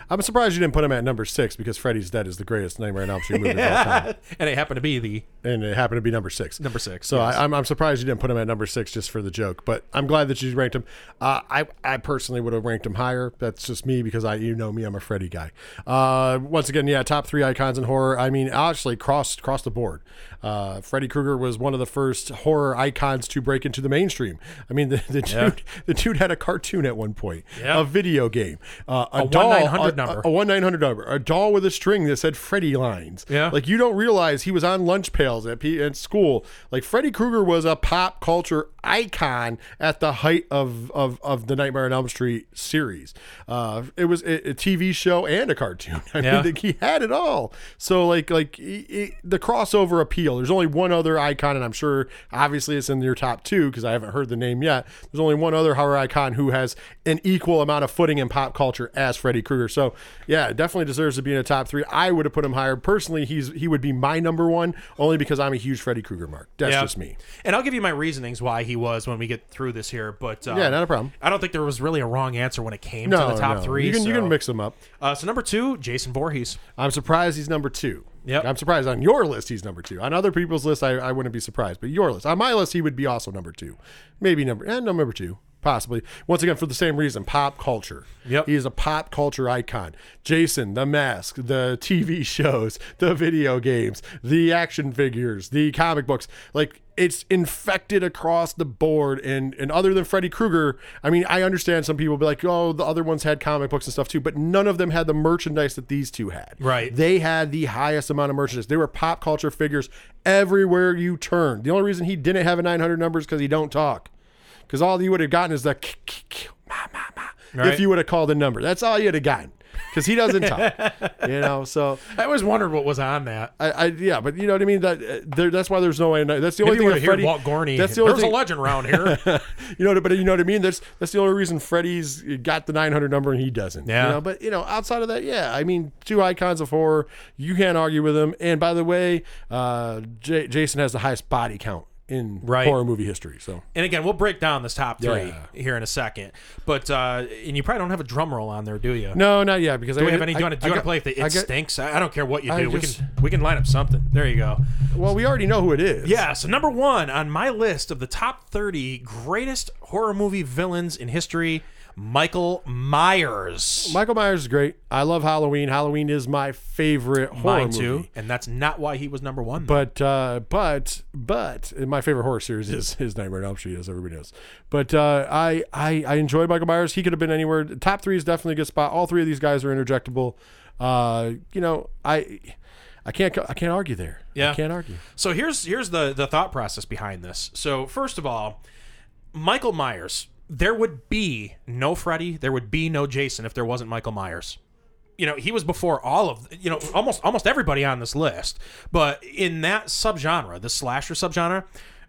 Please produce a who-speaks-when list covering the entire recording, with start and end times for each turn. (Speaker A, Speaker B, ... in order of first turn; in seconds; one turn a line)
Speaker A: 0.1-4.1
Speaker B: 3.2-5.2
Speaker A: 5.4-67.2
Speaker B: 6.6-7.4
Speaker B: 25.3-25.5
Speaker B: 27.5-27.8
Speaker B: 29.1-30.3
Speaker B: 33.3-33.5
Speaker B: 46.2-46.5
Speaker B: 66.6-66.9
Speaker B: 67.4-74.4
Speaker A: 70.5-71.1
Speaker A: 73.0-74.8
Speaker B: 75.0-76.6
Speaker A: 76.8-114.1
Speaker B: 106.6-106.9
Speaker A: 114.7-122.1
Speaker B: 117.5-117.8
Speaker B: 120.3-121.3
Speaker B: 122.1-123.5
Speaker A: 123.6-143.6
Speaker B: 126.6-129.2
Speaker B: 133.8-134.2
Speaker B: 142.4-142.8
Speaker B: 143.7-149.2
Speaker A: 145.0-145.4
Speaker A: 149.1-151.5
Speaker B: 149.9-154.6
Speaker A: 152.5-153.0
Speaker A: 154.9-156.2
Speaker B: 156.0-164.0
Speaker A: 163.8-168.1
Speaker B: 167.3-169.8
Speaker A: 169.6-185.0
Speaker B: 184.3-184.6
Speaker B: 185.1-188.6
Speaker B: 189.3-194.6
Speaker B: 195.2-201.7